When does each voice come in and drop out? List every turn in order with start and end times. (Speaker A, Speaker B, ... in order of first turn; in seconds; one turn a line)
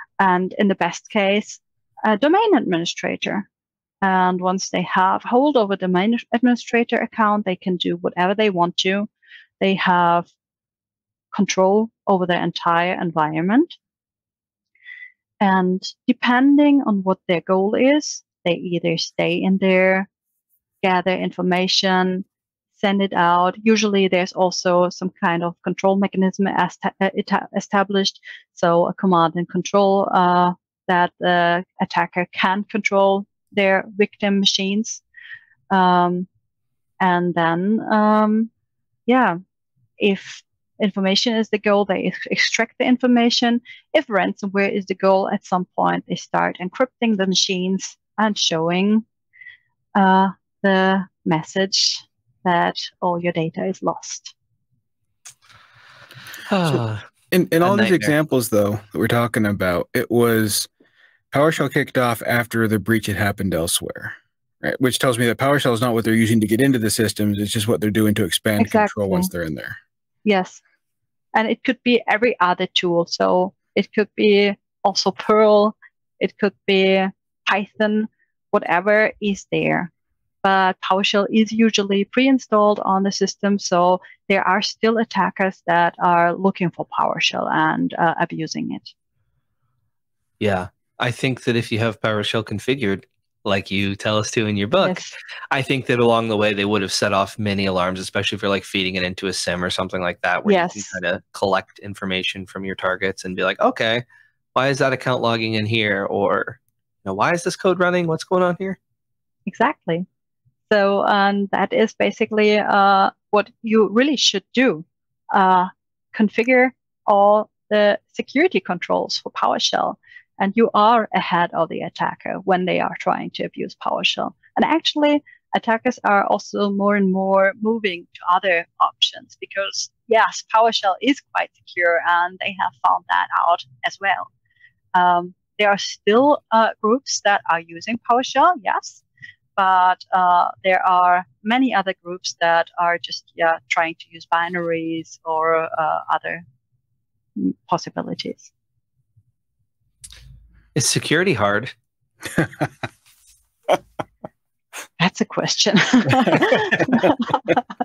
Speaker A: 0.2-3.5
Speaker A: 4.0-9.1
Speaker A: 9.6-10.3
Speaker A: 11.3-13.7
Speaker A: 15.4-20.1
Speaker A: 20.8-22.2
Speaker A: 22.8-35.0
Speaker A: 35.7-36.3
Speaker A: 37.0-38.5
Speaker A: 39.1-39.4
Speaker A: 40.0-49.0
Speaker A: 49.9-54.3
Speaker B: 56.5-57.0
Speaker C: 56.7-60.7
Speaker B: 57.6-58.1
Speaker C: 61.3-69.8
Speaker A: 68.6-69.3
Speaker A: 70.2-70.6
Speaker A: 71.3-79.9
Speaker A: 80.4-88.9
Speaker B: 90.4-104.0
Speaker A: 94.8-95.1
Speaker A: 100.5-101.0
Speaker B: 104.5-108.8
Speaker A: 109.5-110.0
Speaker A: 110.7-134.3
Speaker A: 134.9-139.0
Speaker A: 139.6-146.4
Speaker A: 147.3-148.5
Speaker B: 150.7-151.7
Speaker A: 155.0-157.6